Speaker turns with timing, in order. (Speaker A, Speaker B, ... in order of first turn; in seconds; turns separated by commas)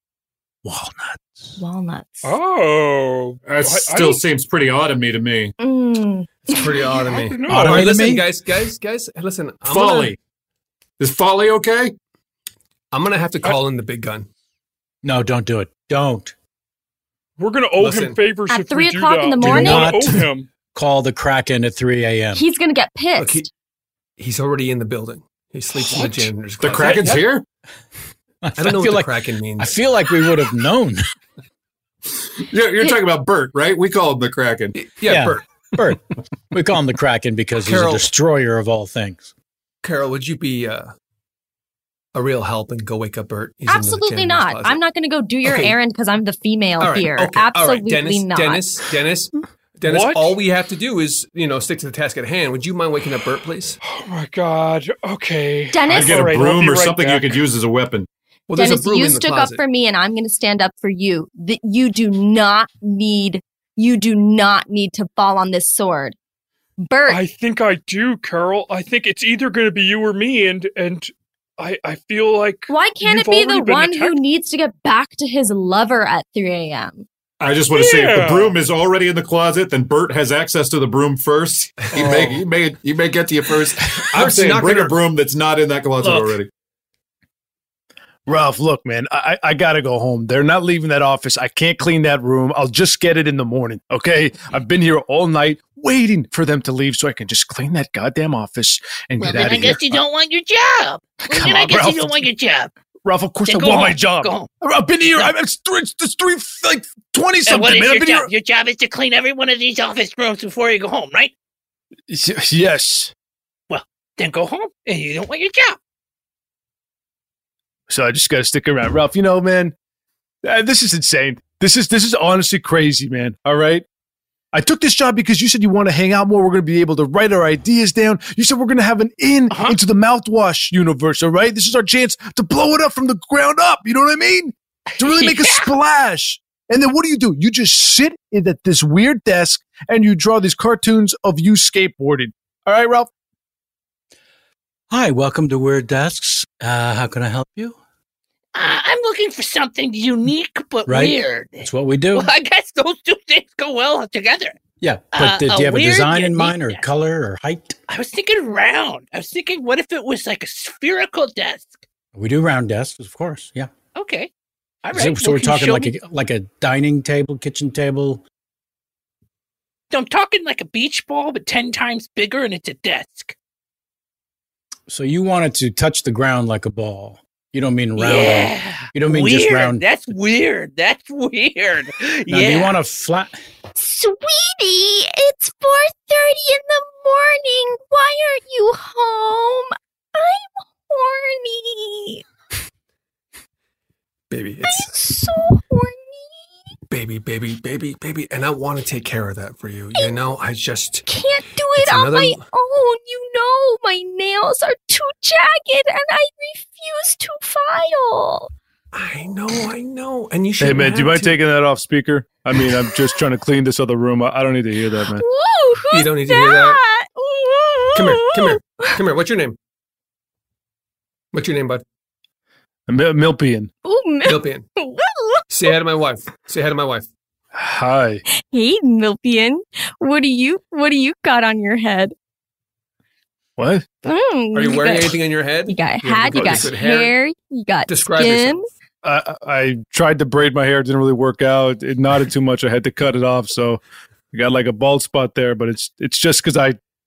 Speaker A: 0.6-1.6, Speaker B: 1.6-2.3, Speaker C: 2.2-4.2, Speaker D: 3.4-5.5, Speaker B: 5.6-6.9, Speaker E: 6.5-10.1, Speaker C: 7.1-8.1, Speaker A: 7.5-8.3, Speaker D: 9.6-10.2, Speaker D: 11.0-11.9, Speaker E: 12.9-14.3, Speaker A: 15.0-16.3, Speaker C: 17.4-20.5, Speaker E: 17.8-18.2, Speaker B: 18.5-20.0, Speaker A: 19.4-22.4, Speaker B: 22.3-23.5, Speaker E: 23.1-23.5, Speaker E: 24.2-27.3, Speaker D: 26.6-27.4, Speaker A: 28.4-31.0, Speaker E: 28.6-29.7, Speaker D: 32.5-34.8, Speaker E: 34.7-35.4, Speaker A: 35.0-36.0, Speaker A: 36.5-39.3, Speaker E: 37.6-38.1, Speaker E: 39.8-40.9, Speaker E: 42.1-44.8, Speaker B: 43.7-48.7, Speaker E: 45.4-45.8, Speaker E: 46.8-53.8, Speaker C: 49.9-50.4, Speaker C: 53.8-57.4, Speaker B: 55.7-56.5, Speaker D: 55.9-58.1, Speaker E: 58.5-59.6, Speaker B: 58.5-66.1, Speaker B: 66.8-67.2, Speaker C: 67.0-74.2, Speaker B: 72.7-77.0, Speaker D: 77.4-86.5, Speaker C: 77.7-78.6, Speaker E: 81.8-82.2, Speaker C: 82.0-82.4, Speaker E: 84.1-85.0, Speaker F: 86.0-86.3, Speaker F: 88.3-100.0, Speaker G: 99.2-102.7, Speaker F: 101.2-102.3, Speaker F: 103.0-108.3, Speaker G: 103.5-104.5, Speaker G: 107.4-111.3, Speaker F: 112.1-113.1, Speaker G: 113.7-115.8, Speaker F: 117.9-119.7, Speaker F: 120.4-123.8, Speaker F: 124.5-143.1, Speaker G: 129.5-129.8, Speaker G: 135.0-135.7, Speaker A: 144.9-147.8, Speaker G: 148.5-154.6, Speaker A: 150.9-152.3, Speaker A: 154.8-157.8, Speaker G: 155.1-156.8, Speaker G: 157.9-161.8, Speaker A: 162.1-163.7, Speaker G: 163.9-164.3, Speaker G: 164.8-165.9, Speaker A: 164.9-168.2, Speaker G: 169.9-173.3, Speaker A: 174.9-179.8, Speaker G: 178.0-182.8, Speaker A: 182.3-183.4, Speaker B: 183.7-192.2, Speaker E: 194.3-194.9, Speaker B: 194.6-196.3, Speaker E: 196.9-201.0, Speaker B: 201.1-208.5, Speaker E: 201.8-202.4, Speaker E: 208.9-211.4, Speaker F: 210.6-215.2, Speaker B: 215.1-219.0, Speaker E: 215.9-216.8, Speaker E: 217.9-219.6, Speaker E: 221.3-221.8, Speaker F: 222.9-223.7, Speaker B: 223.8-225.8, Speaker E: 224.2-224.7, Speaker E: 225.5-227.1, Speaker F: 227.5-228.2, Speaker B: 228.3-232.1, Speaker F: 233.6-233.9, Speaker B: 234.0-238.7, Speaker E: 234.5-237.2, Speaker E: 237.9-238.6, Speaker F: 239.0-243.8, Speaker F: 244.3-246.8